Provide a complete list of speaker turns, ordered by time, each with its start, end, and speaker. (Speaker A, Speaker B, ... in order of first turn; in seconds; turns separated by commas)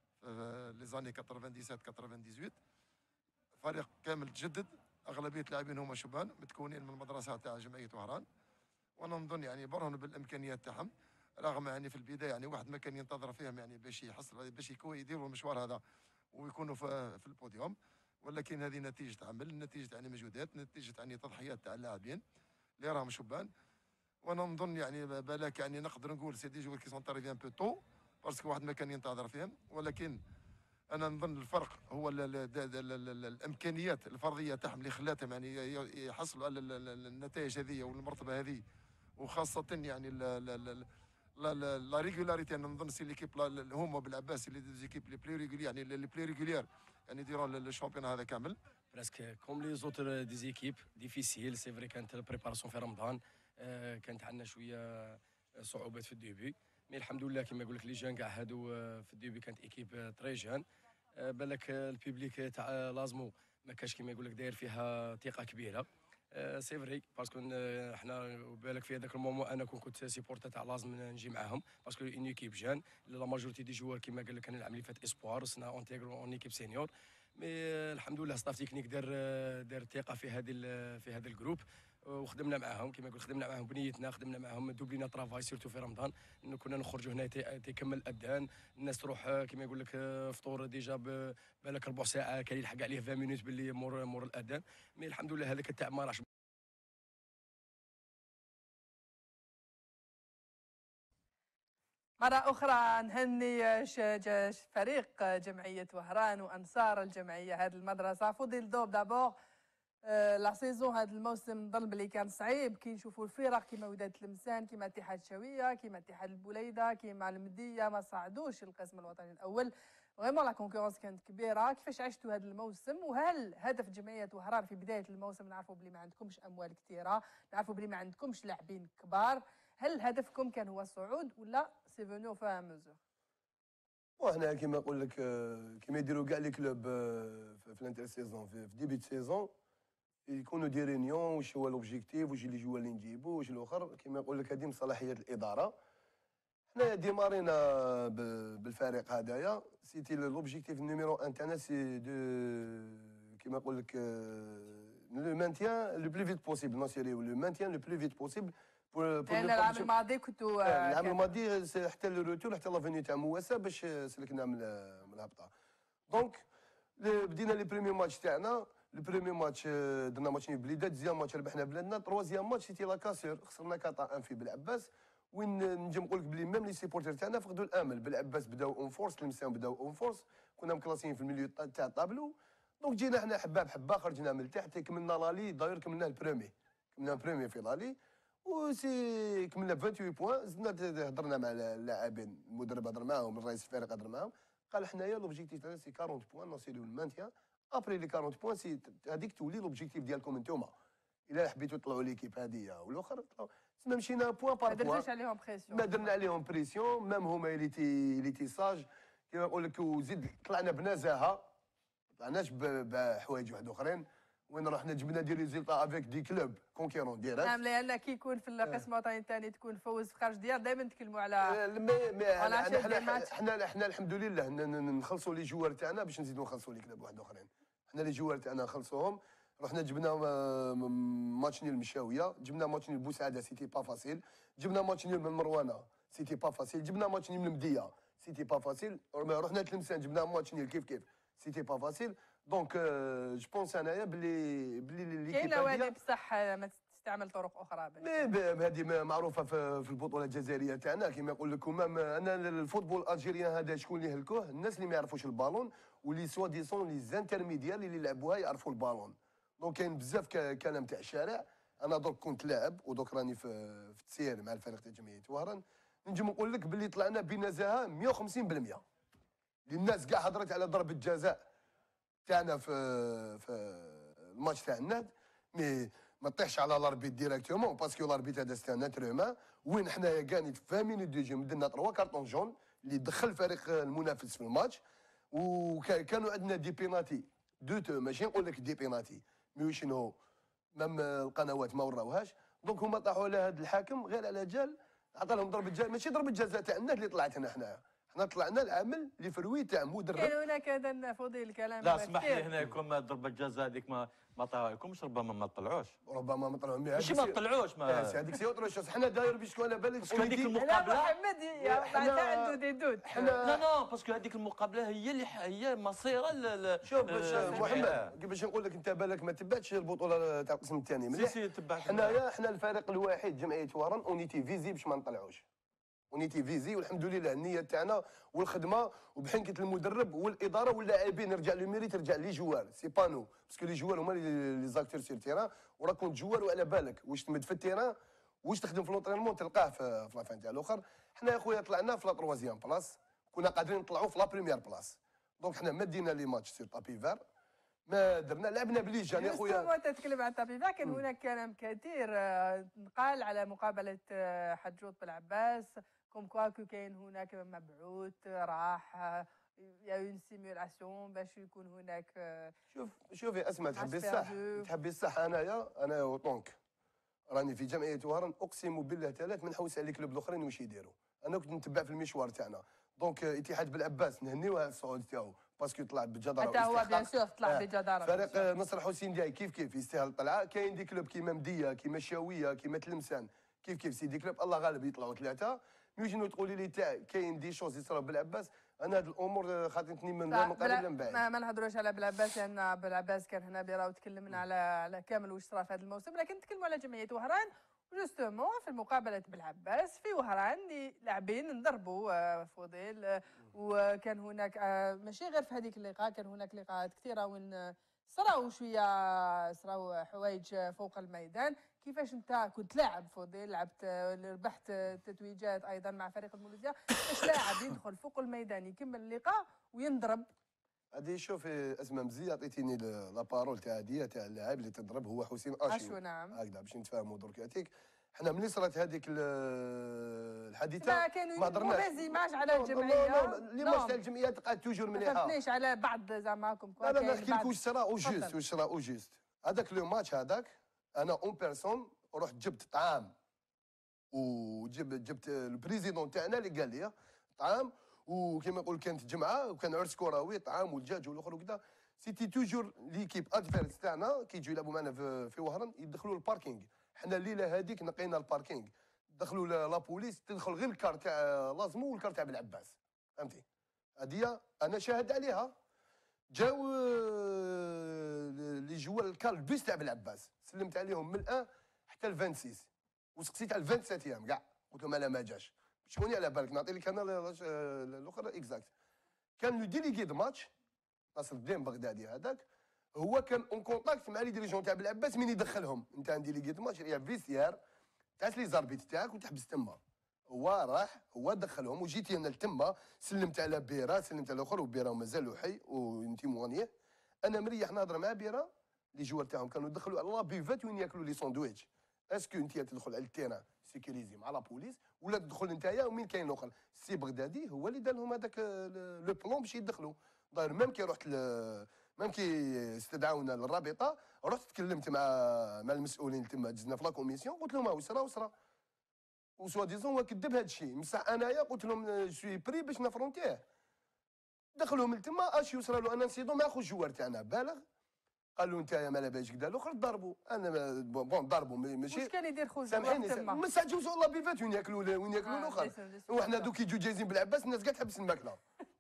Speaker A: 0.2-2.6, Speaker A: 3.6-8.2, Speaker A: 9.0-15.8, Speaker A: 16.3-22.2, Speaker A: 22.8-23.5, Speaker A: 24.2-30.2, Speaker A: 30.9-38.6, Speaker A: 39.2-40.9, Speaker A: 41.4-48.6, Speaker B: 48.9-60.6, Speaker B: 61.1-96.2, Speaker C: 102.2-109.4, Speaker C: 110.1-133.0, Speaker D: 134.2-139.5, Speaker D: 140.3-145.8, Speaker D: 146.7-159.9, Speaker C: 159.3-161.2, Speaker D: 160.7-165.5, Speaker D: 166.1-166.4, Speaker D: 167.0-200.7, Speaker D: 201.3-205.1, Speaker C: 204.7-205.9, Speaker D: 205.7-211.5, Speaker D: 212.2-217.5, Speaker C: 217.4-221.6, Speaker D: 221.4-245.9, Speaker C: 222.4-223.3, Speaker C: 245.3-248.3, Speaker D: 248.0-268.8, Speaker D: 269.7-271.4, Speaker D: 272.3-284.8, Speaker D: 285.3-290.2, Speaker D: 290.8-300.4, Speaker C: 300.2-302.5, Speaker E: 301.8-305.9, Speaker D: 306.1-310.6, Speaker E: 307.0-308.3, Speaker E: 310.0-311.1, Speaker C: 310.6-313.4, Speaker D: 311.6-312.6, Speaker D: 313.1-313.6, Speaker E: 313.4-318.1, Speaker D: 316.9-325.4, Speaker C: 317.3-317.7, Speaker E: 321.1-322.2, Speaker D: 326.1-347.2, Speaker D: 347.9-349.7, Speaker C: 349.1-362.5, Speaker D: 362.7-366.6, Speaker C: 363.8-364.7, Speaker D: 367.3-391.2, Speaker C: 376.4-378.4, Speaker C: 390.3-420.3, Speaker D: 420.9-435.3, Speaker C: 425.7-426.4, Speaker C: 430.8-434.0, Speaker C: 434.9-438.3, Speaker D: 436.8-443.1, Speaker D: 444.1-463.4, Speaker D: 464.0-465.5, Speaker D: 466.3-478.7, Speaker D: 479.4-480.5, Speaker D: 481.1-482.4, Speaker D: 483.0-487.6, Speaker D: 488.2-496.7, Speaker D: 497.2-518.3, Speaker D: 519.4-523.4, Speaker D: 524.6-527.6, Speaker D: 528.4-532.1, Speaker C: 531.9-533.4, Speaker D: 532.7-538.4, Speaker C: 535.2-536.5